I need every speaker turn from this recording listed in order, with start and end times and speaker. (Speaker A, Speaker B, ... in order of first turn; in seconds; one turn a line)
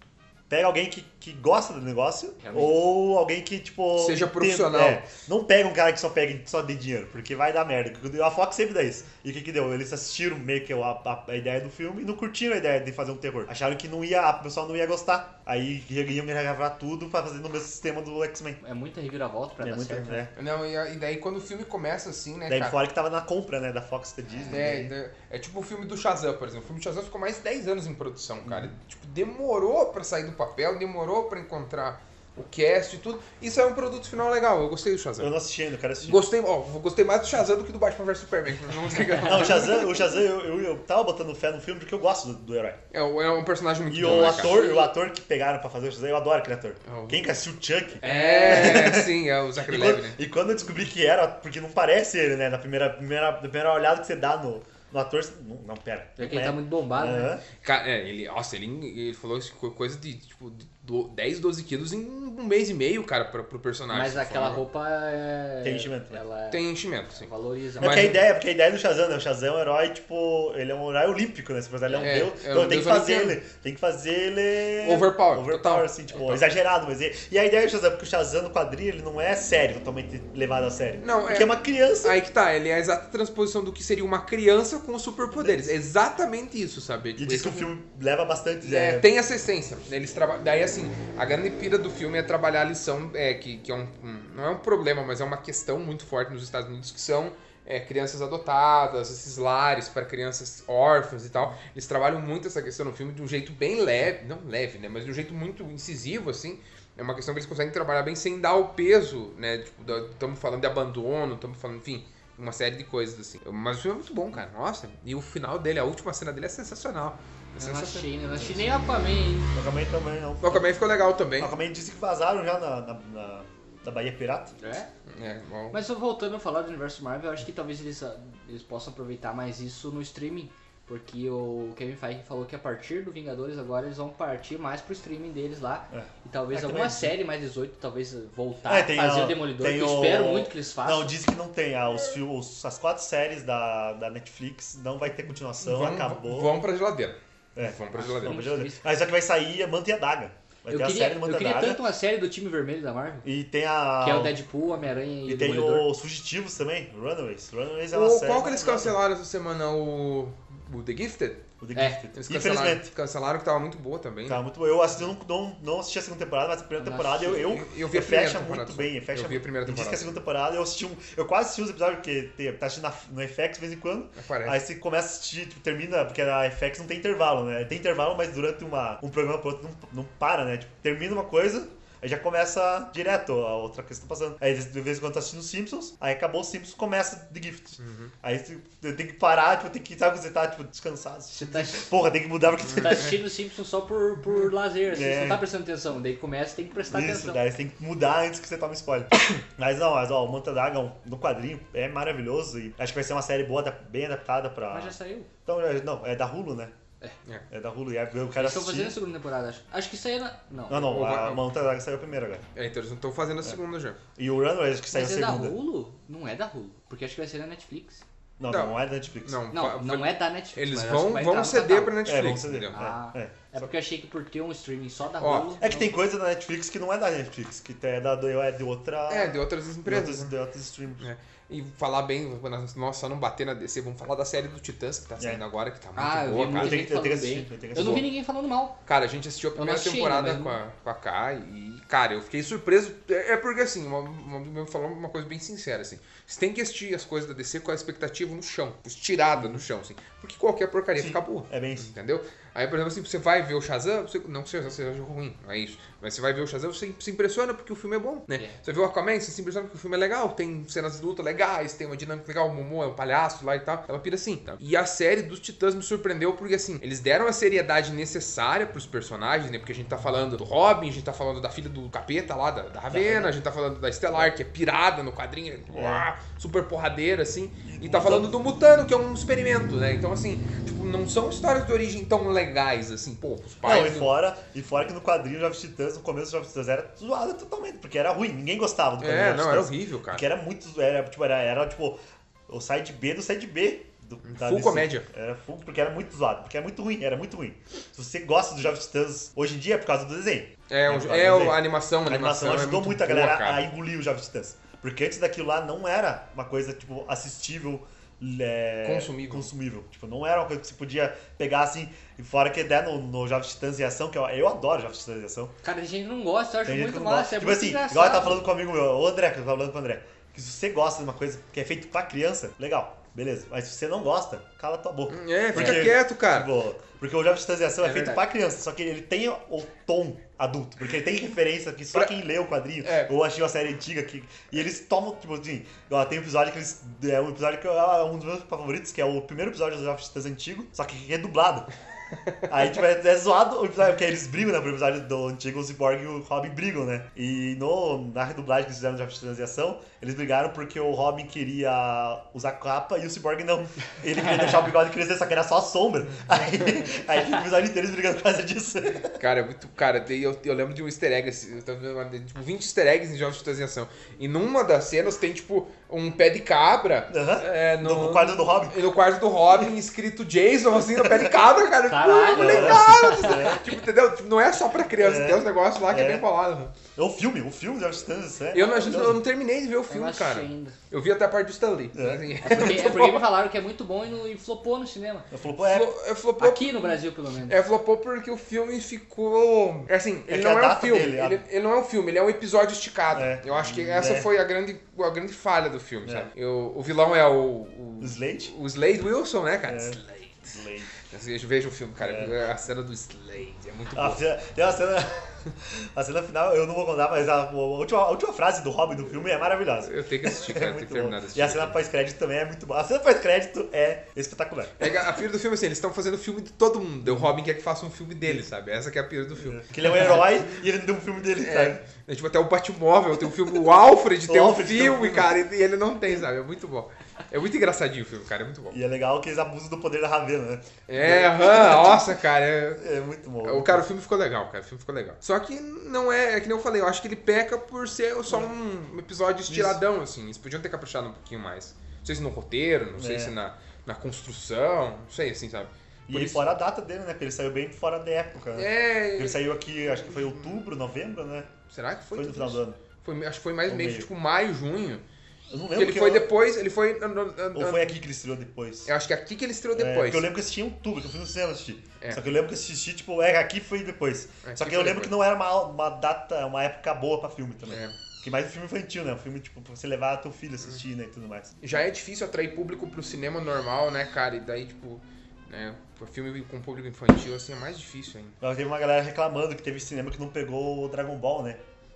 Speaker A: 0.5-18.6
Speaker B: 2.4-2.8
Speaker C: 4.0-5.0
Speaker B: 18.6-20.3
Speaker A: 19.6-20.3
Speaker C: 20.4-22.8
Speaker A: 22.5-24.9
Speaker B: 24.3-24.6
Speaker C: 24.5-35.3
Speaker A: 28.4-28.7
Speaker A: 35.2-36.2
Speaker C: 36.0-40.1
Speaker A: 39.2-42.8
Speaker C: 42.9-44.6
Speaker A: 43.9-57.4
Speaker B: 44.1-44.9
Speaker C: 46.9-47.2
Speaker B: 48.0-49.0
Speaker C: 48.0-50.2
Speaker B: 56.2-57.3
Speaker C: 57.6-64.6
Speaker B: 63.9-68.1
Speaker A: 65.6-66.2
Speaker C: 66.5-68.2
Speaker A: 67.8-82.2
Speaker B: 71.9-72.1
Speaker C: 72.0-73.4
Speaker C: 74.8-76.5
Speaker C: 81.0-87.7
Speaker A: 85.3-85.7
Speaker A: 87.2-89.1
Speaker C: 88.6-118.5
Speaker B: 117.6-119.5
Speaker A: 119.5-120.6
Speaker C: 120.4-121.5
Speaker A: 121.4-124.5
Speaker B: 124.6-124.9
Speaker C: 125.1-125.8
Speaker B: 125.7-141.2
Speaker A: 135.9-137.1
Speaker A: 138.6-146.6
Speaker C: 145.6-148.4
Speaker A: 147.6-151.8
Speaker B: 147.9-148.8
Speaker B: 150.7-153.3
Speaker A: 153.2-154.4
Speaker B: 154.0-155.9
Speaker A: 155.2-159.0
Speaker C: 157.9-161.4
Speaker A: 161.6-162.9
Speaker B: 161.8-162.0
Speaker C: 162.1-164.4
Speaker A: 164.2-193.1
Speaker B: 166.8-167.5
Speaker C: 167.3-170.1
Speaker C: 174.2-174.6
Speaker C: 187.8-188.1
Speaker B: 191.3-191.9
Speaker B: 192.8-197.4
Speaker A: 194.9-195.4
Speaker A: 196.9-206.7
Speaker B: 204.7-205.3
Speaker A: 207.5-209.0
Speaker B: 208.4-210.9
Speaker A: 210.7-212.4
Speaker C: 210.7-211.4
Speaker C: 212.5-214.0
Speaker A: 214.2-215.6
Speaker B: 214.9-218.0
Speaker A: 218.4-219.4
Speaker C: 218.5-222.8
Speaker B: 219.5-222.0
Speaker A: 222.0-223.4
Speaker B: 222.7-225.8
Speaker C: 225.2-225.6
Speaker A: 225.6-231.0
Speaker C: 229.1-230.3
Speaker C: 231.0-236.9
Speaker B: 236.0-238.8
Speaker A: 236.5-238.1
Speaker C: 238.9-284.1
Speaker B: 239.6-240.6
Speaker A: 249.3-249.6
Speaker A: 251.0-251.9
Speaker A: 272.9-273.3
Speaker A: 275.7-276.1
Speaker A: 277.7-278.3
Speaker A: 283.6-315.5
Speaker C: 289.0-290.2
Speaker C: 294.2-295.1
Speaker C: 300.7-303.6
Speaker C: 308.8-309.5
Speaker B: 315.6-318.5
Speaker A: 316.6-341.7
Speaker C: 325.1-326.5
Speaker B: 327.9-328.2
Speaker C: 332.8-333.1
Speaker A: 342.5-359.1
Speaker C: 359.1-376.7
Speaker A: 367.1-368.8
Speaker A: 371.0-371.3
Speaker B: 371.9-373.6
Speaker A: 372.3-373.6
Speaker A: 375.0-376.2
Speaker A: 376.9-379.2
Speaker C: 378.5-383.3
Speaker B: 379.9-380.8
Speaker A: 381.9-382.2
Speaker B: 382.4-385.3
Speaker A: 385.3-385.9
Speaker C: 385.6-400.5
Speaker B: 386.4-387.6
Speaker A: 390.3-391.4
Speaker A: 393.1-394.3
Speaker A: 396.0-396.3
Speaker A: 398.0-398.5
Speaker A: 399.7-400.9
Speaker C: 401.1-404.2
Speaker A: 402.0-402.3
Speaker A: 403.9-414.9
Speaker C: 409.8-411.8
Speaker C: 414.8-420.3
Speaker A: 417.0-417.3
Speaker A: 419.4-421.8
Speaker C: 421.4-428.8
Speaker A: 424.2-425.3
Speaker A: 428.7-432.2
Speaker C: 430.9-432.8
Speaker A: 432.8-433.8
Speaker C: 433.4-446.5
Speaker A: 439.5-439.8
Speaker A: 443.0-443.3
Speaker A: 446.1-451.5
Speaker C: 448.5-449.4
Speaker C: 450.0-450.6
Speaker C: 451.5-455.0
Speaker A: 452.1-452.8
Speaker A: 453.7-454.1
Speaker A: 455.5-456.3
Speaker C: 455.7-457.9
Speaker A: 457.5-458.9
Speaker C: 458.9-460.3
Speaker A: 459.8-471.5
Speaker C: 464.4-465.1
Speaker C: 467.7-468.0
Speaker C: 471.6-478.3
Speaker A: 478.4-481.6